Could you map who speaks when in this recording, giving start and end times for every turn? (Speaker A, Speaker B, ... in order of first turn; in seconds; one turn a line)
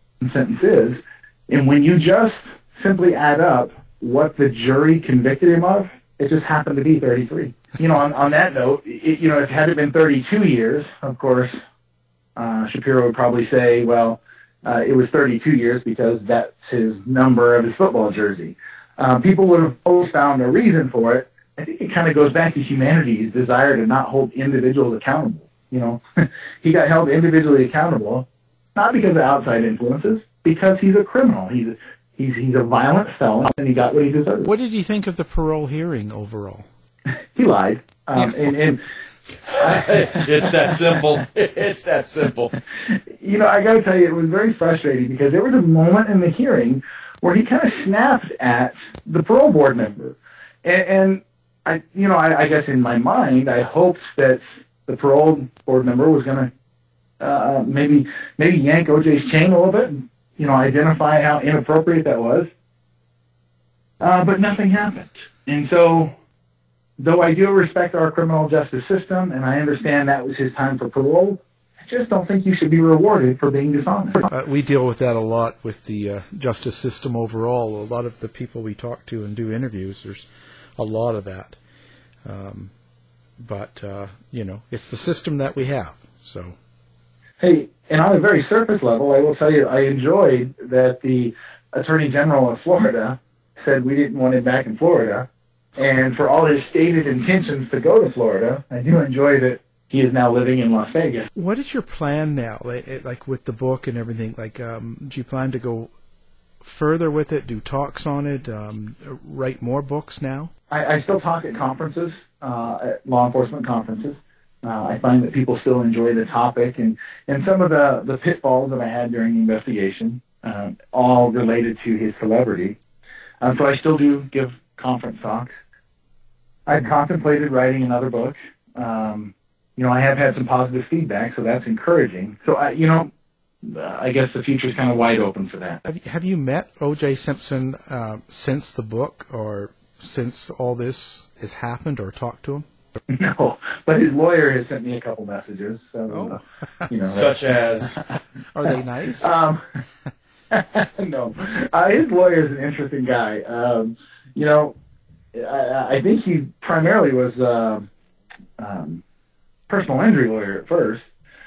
Speaker A: 0.2-11.5
Speaker A: 12.3-34.5
Speaker B: 34.4-36.7
Speaker A: 37.3-38.8
Speaker C: 39.5-42.5
Speaker A: 39.6-40.2
Speaker A: 43.2-56.5
Speaker A: 57.2-62.5
Speaker A: 64.0-66.1
Speaker A: 67.0-74.2
Speaker B: 74.3-81.6
Speaker B: 82.2-82.7
Speaker B: 83.4-86.5
Speaker A: 87.4-101.3
Speaker B: 101.3-105.9
Speaker B: 106.6-110.5
Speaker A: 110.7-122.8
Speaker A: 123.4-125.5
Speaker A: 126.7-133.1
Speaker A: 133.6-135.8
Speaker B: 135.8-142.7
Speaker A: 143.1-147.3
Speaker B: 146.1-146.9
Speaker C: 147.1-148.0
Speaker B: 148.5-149.3
Speaker A: 149.2-149.6
Speaker A: 150.5-154.7
Speaker A: 155.3-157.9
Speaker A: 158.6-159.0
Speaker A: 159.7-161.0